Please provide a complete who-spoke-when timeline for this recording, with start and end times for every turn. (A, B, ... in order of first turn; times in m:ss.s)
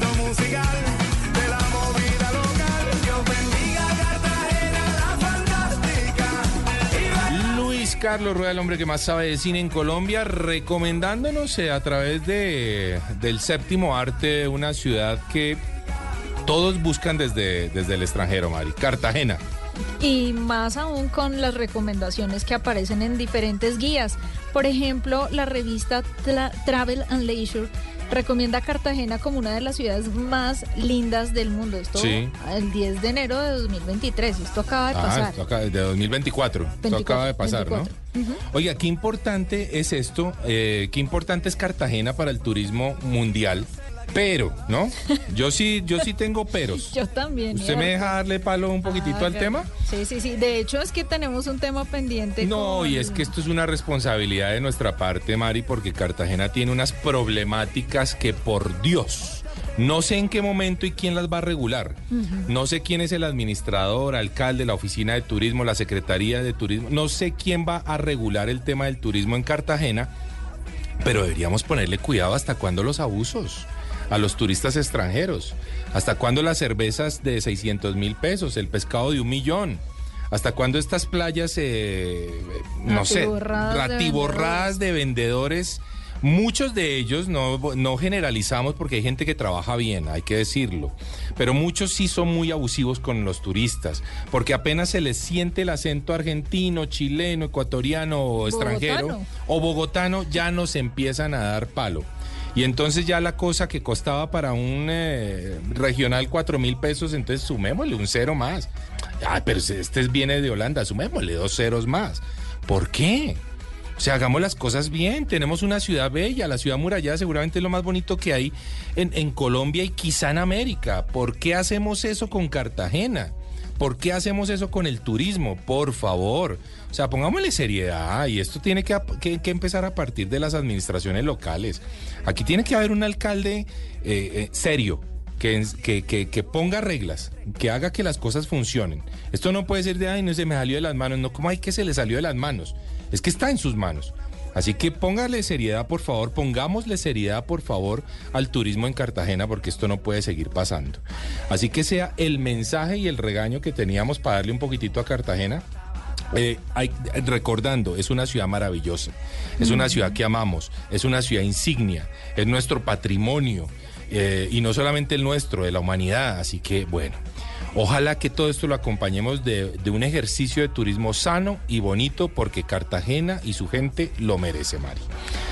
0:07.3-0:15.6 A
0:16.4-0:19.4 A
0:20.0-0:35.4 B
0:32.0-0:32.3 A
0:34.9-0:37.9 A
0:36.8-0:38.4 B
0:38.5-0:47.0 A
0:46.8-0:48.2 B
0:47.5-0:49.7 A
0:48.8-0:53.3 B
0:52.4-1:10.1 A
1:02.1-1:02.5 B
1:11.0-1:53.4 A
1:22.9-1:24.7 B
1:38.4-1:39.3 B
1:54.0-2:35.6 A
2:36.3-2:47.2 A
2:39.6-2:40.2 B
2:47.7-2:55.1 A